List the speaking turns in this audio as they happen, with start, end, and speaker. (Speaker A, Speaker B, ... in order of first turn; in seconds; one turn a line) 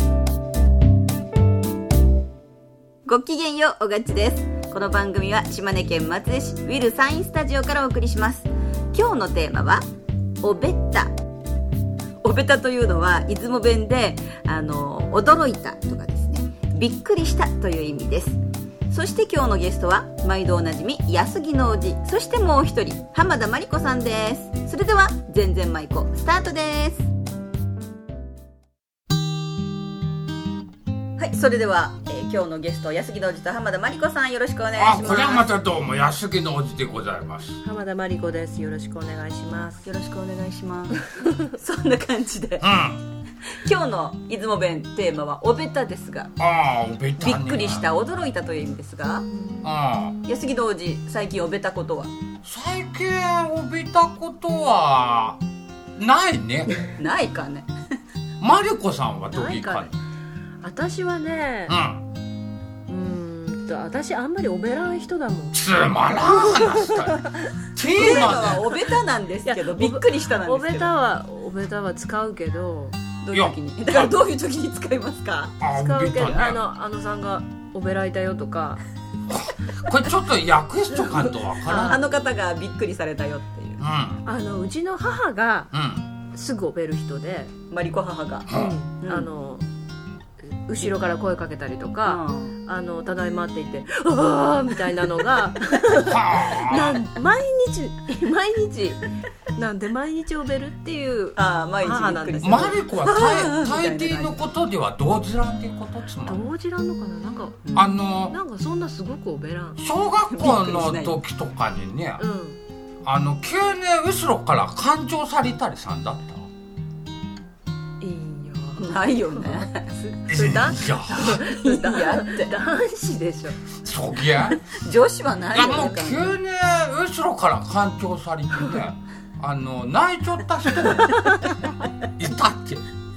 Speaker A: 3.0-9.8
Speaker A: 10.4-11.1
Speaker A: 12.2-27.1
Speaker A: 31.2-35.5
Speaker B: 34.8-37.6
Speaker C: 37.6-39.9
Speaker A: 39.8-42.7
Speaker B: 42.6-43.0
Speaker A: 43.6-46.3
Speaker B: 46.4-47.9
Speaker A: 47.2-49.3
Speaker B: 49.6-50.2
Speaker A: 50.2-52.1
Speaker B: 52.4-55.4
Speaker B: 56.0-56.8
Speaker A: 57.0-57.7
Speaker B: 58.4-59.9
Speaker C: 59.3-60.0
Speaker C: 60.6-61.8
Speaker B: 61.7-62.0
Speaker C: 62.9-65.6
Speaker B: 65.5-68.6
Speaker C: 66.3-67.4
Speaker A: 67.9-71.0
Speaker C: 68.1-68.4
Speaker C: 69.5-73.0
Speaker A: 73.2-75.6
Speaker B: 73.3-74.1
Speaker B: 75.6-76.6
Speaker C: 75.7-78.8
Speaker B: 79.3-82.0
Speaker C: 81.2-82.0
Speaker A: 81.7-83.8
Speaker B: 83.8-84.2
Speaker C: 84.2-85.7
Speaker B: 85.7-86.1
Speaker C: 86.3-87.5
Speaker A: 87.7-89.3
Speaker B: 88.5-88.8
Speaker C: 88.5-89.7
Speaker C: 90.7-102.8
Speaker A: 92.0-92.6
Speaker B: 96.0-97.0
Speaker A: 96.7-97.0
Speaker A: 101.4-104.4
Speaker B: 102.4-106.5
Speaker C: 106.3-109.8
Speaker A: 107.7-107.9
Speaker B: 107.8-108.4
Speaker B: 109.8-112.3
Speaker A: 110.3-111.2
Speaker C: 112.2-112.6
Speaker B: 113.0-116.5
Speaker C: 118.0-123.6
Speaker A: 118.8-119.9
Speaker B: 120.3-121.4
Speaker A: 121.3-122.6
Speaker B: 123.8-124.6
Speaker A: 124.6-126.4
Speaker B: 125.5-131.2
Speaker B: 132.0-132.8